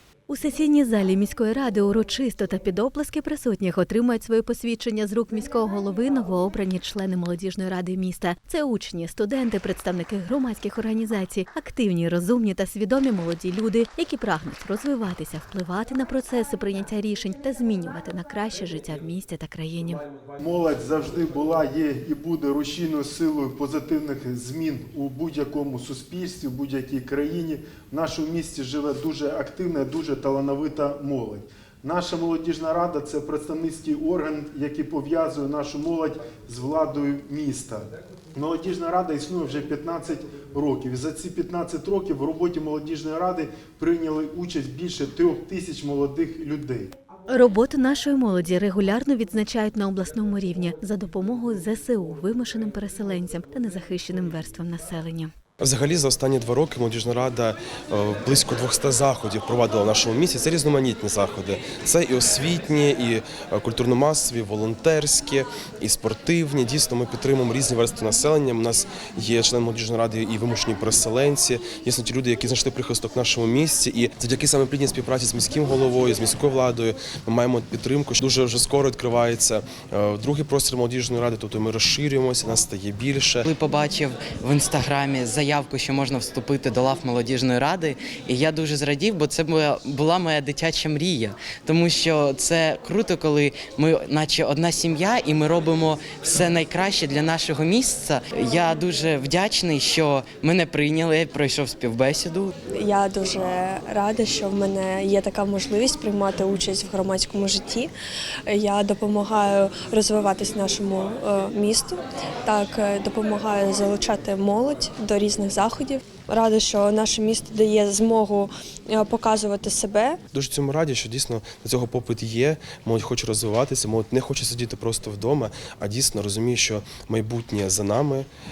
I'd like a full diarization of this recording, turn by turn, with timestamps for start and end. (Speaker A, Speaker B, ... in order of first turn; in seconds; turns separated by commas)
Speaker A: 0.3-20.0, Speaker B: 20.4-46.9, Speaker A: 47.3-55.3, Speaker C: 55.6-83.5, Speaker D: 83.4-102.5, Speaker E: 102.8-107.9, Speaker E: 108.5-120.2, Speaker C: 120.3-128.3